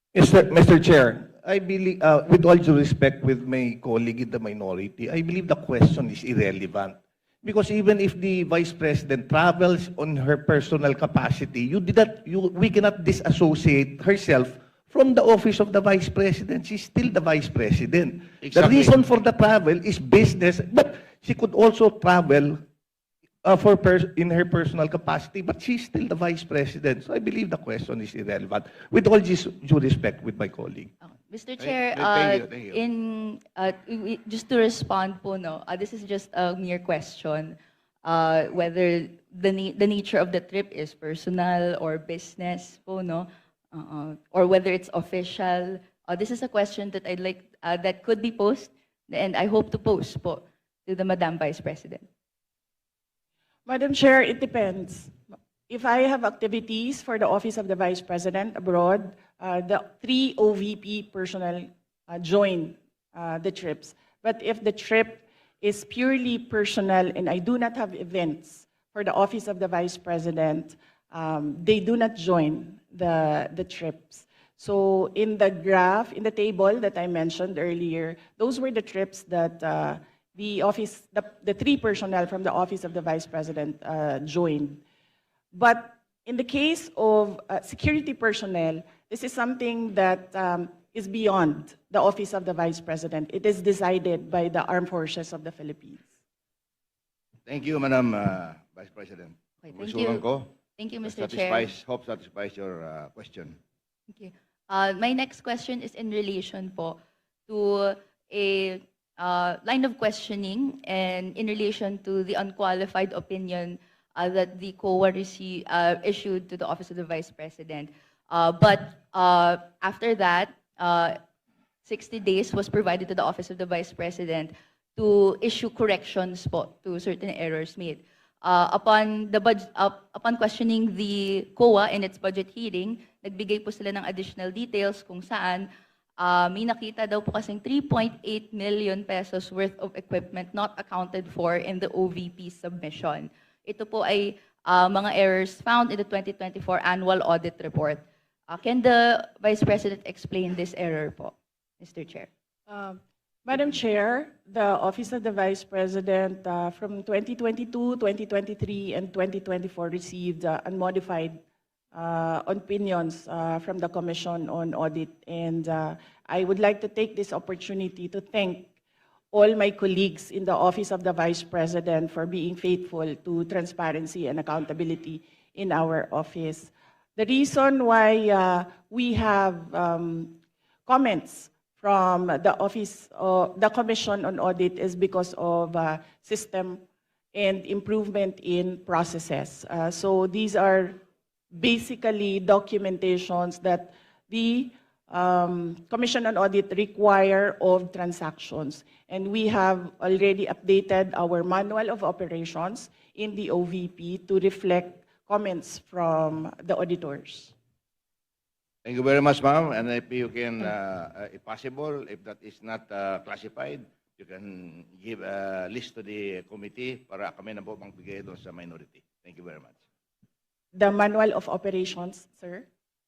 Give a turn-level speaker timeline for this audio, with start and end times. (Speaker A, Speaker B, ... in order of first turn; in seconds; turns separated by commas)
Speaker A: 0.1-22.6, Speaker B: 18.4-19.0, Speaker A: 23.4-30.9, Speaker C: 31.1-52.1, Speaker B: 31.6-32.8, Speaker D: 53.7-55.2, Speaker D: 55.7-84.8, Speaker D: 85.5-96.1, Speaker B: 97.5-100.5, Speaker C: 99.7-100.2, Speaker C: 100.8-101.7, Speaker B: 101.0-103.6, Speaker C: 104.1-121.2, Speaker C: 121.8-152.3, Speaker D: 152.7-161.4, Speaker D: 161.9-168.7, Speaker D: 169.3-186.8, Speaker D: 187.3-191.0, Speaker D: 191.6-207.5, Speaker B: 208.8-219.8, Speaker D: 220.8-222.7